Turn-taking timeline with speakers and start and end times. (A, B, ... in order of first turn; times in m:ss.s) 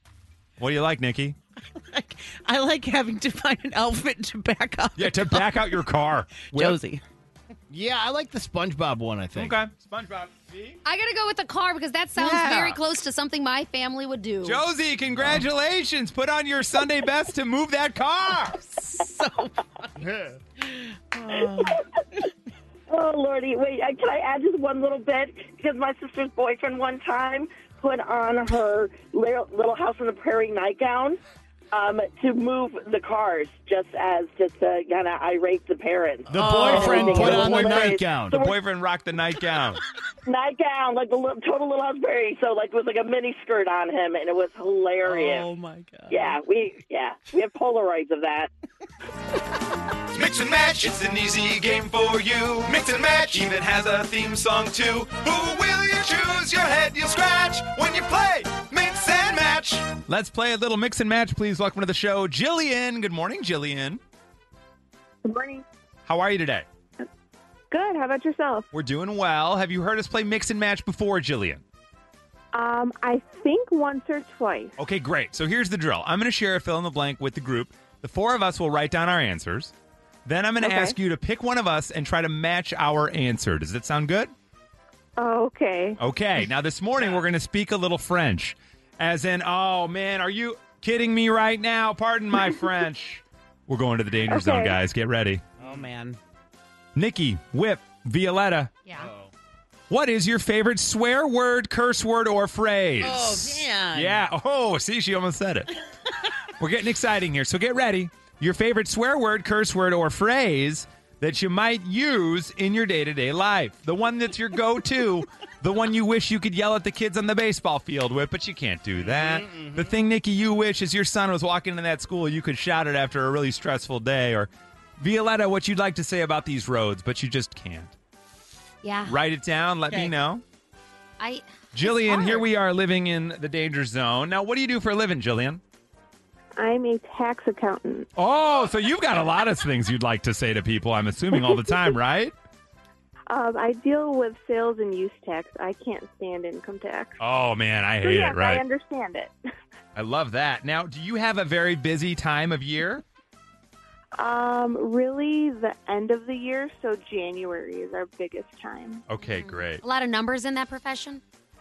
0:00.6-0:01.3 A
0:01.7-0:05.8 B
0:04.9-0:06.8 A
0:06.5-0:07.0 B
0:07.7-0:09.6 C
0:09.3-0:10.8 A
0:10.8-0:14.6 D
0:12.2-0:12.8 A
0:14.4-0:18.6 A
0:18.8-0:19.9 B
0:20.0-0:20.4 C
0:20.6-0:21.8 B
0:22.9-0:31.2 E
0:31.7-0:38.6 E
0:36.3-0:38.4 C
0:36.3-0:37.5 B
0:37.3-0:39.8 A
0:40.2-0:45.5 E
0:45.0-0:46.4 B
0:46.1-0:48.5 E
0:50.1-1:04.0 A
1:05.2-1:05.6 F
1:06.0-1:06.7 A
1:07.7-1:08.7 F
1:08.7-1:11.6 A
1:12.5-1:14.7 F
1:14.8-1:19.7 A
1:20.2-1:24.3 A
1:20.6-1:20.9 F
1:25.2-1:26.0 F
1:26.0-1:35.4 A
1:34.3-1:34.8 F
1:35.6-1:35.9 C
1:35.6-1:36.2 B
1:36.9-1:38.7 A
1:38.8-1:39.1 D
1:39.0-1:39.3 C
1:39.9-1:45.7 A
1:43.0-1:44.2 B
1:46.6-2:07.9 A
1:59.0-1:59.9 C
2:08.8-2:09.2 D
2:09.1-2:10.4 A
2:09.9-2:10.1 B
2:11.2-2:12.4 D
2:11.7-2:15.6 A
2:16.6-2:18.1 F
2:18.2-2:22.3 A
2:23.3-2:27.2 F
2:27.2-2:28.6 A
2:28.0-2:29.3 F
2:30.0-2:33.0 A
2:34.2-2:39.0 F
2:39.1-2:39.8 A
2:39.2-2:41.2 D